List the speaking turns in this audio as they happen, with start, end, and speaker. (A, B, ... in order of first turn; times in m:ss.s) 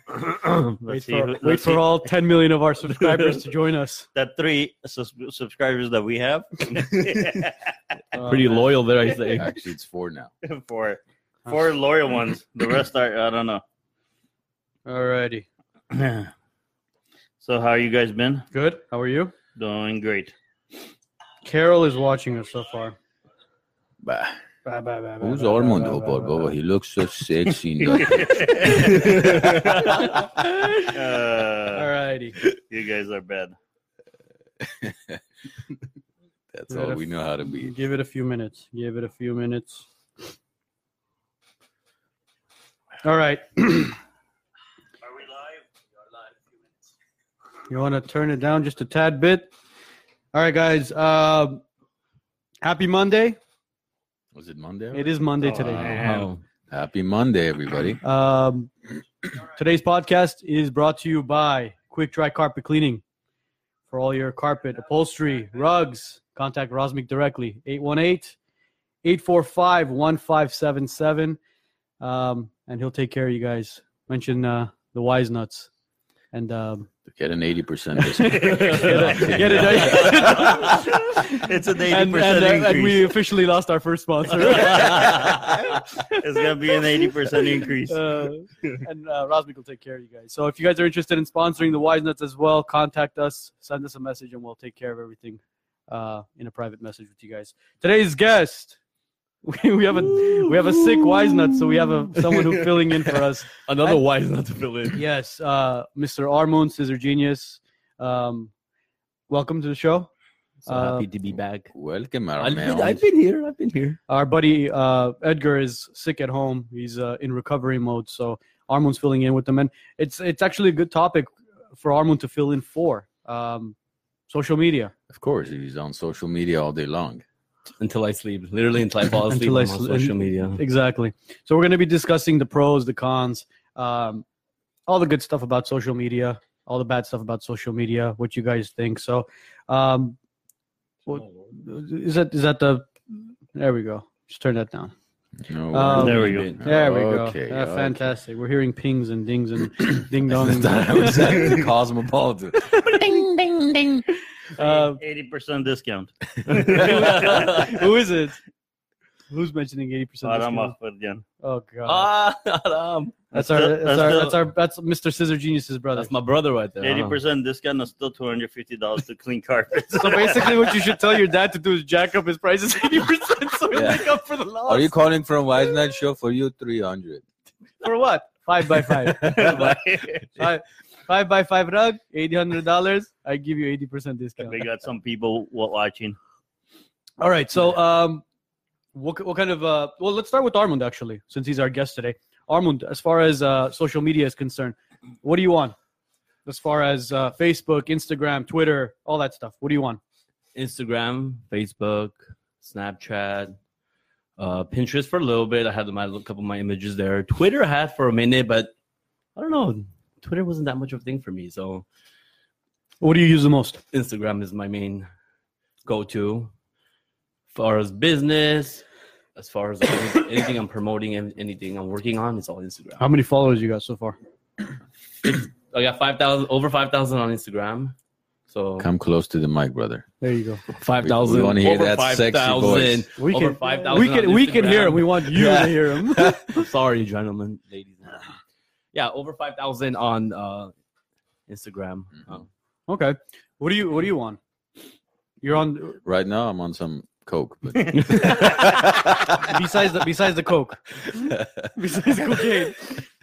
0:00.1-0:02.1 A
0:00.9-0:04.1 B
0:03.0-0:03.3 C
0:04.2-0:07.6 A
0:06.8-0:07.2 C
0:08.1-0:08.7 B
0:08.2-0:09.6 C
0:09.3-0:10.3 D
0:10.4-0:13.6 A
0:14.9-0:15.5 B
0:15.9-0:16.3 A
0:17.4-0:18.5 A
0:18.5-0:19.3 B
0:19.6-0:20.3 A
0:21.4-0:23.0 B
0:24.0-0:24.4 D
0:24.6-0:26.5 B
0:25.2-0:30.2 D
0:27.8-0:30.2 A
0:30.4-0:31.0 B
0:30.8-0:31.9 A
0:31.7-0:32.4 B
0:32.5-0:33.6 A
0:34.6-0:35.2 D
0:36.5-0:37.7 D
0:36.7-0:39.9 B
0:43.0-0:44.0 B
0:45.0-0:45.6 A
0:47.7-0:49.5 B
0:50.3-0:51.6 B
0:52.6-0:53.4 B
0:54.3-0:56.0 D
0:54.9-0:56.0 B
0:55.8-0:56.3 A
0:55.8-0:56.4 C
0:56.7-0:58.0 D
0:58.0-0:58.7 B
0:59.3-1:03.0 B
1:03.9-1:08.4 B
1:09.0-1:11.4 B
1:12.0-1:15.7 B
1:16.3-1:16.9 B
1:17.1-1:20.9 D
1:18.0-1:26.5 B
1:18.3-1:18.9 A
1:20.1-1:23.1 A
1:24.7-1:25.4 C
1:26.1-1:28.7 A
1:27.9-1:38.8 B
1:39.4-1:44.0 B
1:40.0-1:45.0 C
1:44.9-1:48.5 B
1:49.3-1:50.1 B
1:50.7-1:51.1 B
1:50.7-1:51.7 C
1:51.3-1:53.0 D
1:52.4-1:54.0 C
1:54.1-2:03.8 B
2:04.3-2:04.9 B
2:05.1-2:07.2 D
2:07.8-2:10.6 C
2:09.3-2:14.2 B
2:14.9-2:20.2 B
2:21.1-2:24.9 B
2:25.4-2:28.1 D
2:25.7-2:31.6 B
2:25.9-2:26.6 A
2:25.9-2:26.6 C
2:29.8-2:33.0 D
2:32.7-2:34.0 B
2:34.6-2:35.0 B
2:34.6-2:37.7 A
2:36.5-2:37.9 C
2:36.7-2:38.4 B
2:39.3-2:40.8 B
2:40.2-2:41.2 A
2:41.4-2:42.1 B
2:41.9-2:43.2 C
2:43.3-2:46.1 B
2:43.3-2:44.4 A
2:46.0-2:47.2 C
2:46.8-2:51.0 A
2:49.9-2:54.9 B
2:53.7-2:54.1 D
2:54.7-2:57.2 D
2:57.8-2:59.6 B
2:59.2-2:59.7 D
2:59.2-3:00.2 A
3:00.4-3:04.6 B
3:04.4-3:06.2 A
3:07.2-3:08.2 B
3:08.9-3:15.8 B
3:16.5-3:20.0 B
3:20.5-3:23.6 C
3:24.4-3:28.7 C
3:29.4-3:31.8 C
3:33.0-3:33.8 B
3:33.9-3:35.1 C
3:35.8-3:36.5 C
3:37.5-3:38.8 C
3:39.4-3:43.0 C
3:43.0-3:44.2 B
3:45.2-3:47.9 C
3:48.5-3:48.9 C
3:48.8-3:50.1 D
3:50.2-3:50.6 B
3:50.7-3:55.5 C
3:51.0-3:53.1 D
3:53.2-3:56.6 B
3:55.3-3:56.5 D
3:56.5-3:58.3 C
3:58.9-4:00.7 C
4:01.5-4:02.5 C
4:02.9-4:04.4 B
4:05.4-4:06.0 B
4:06.0-4:09.9 D
4:07.8-4:08.1 A
4:08.1-4:08.3 C
4:09.4-4:13.0 B
4:11.0-4:12.9 D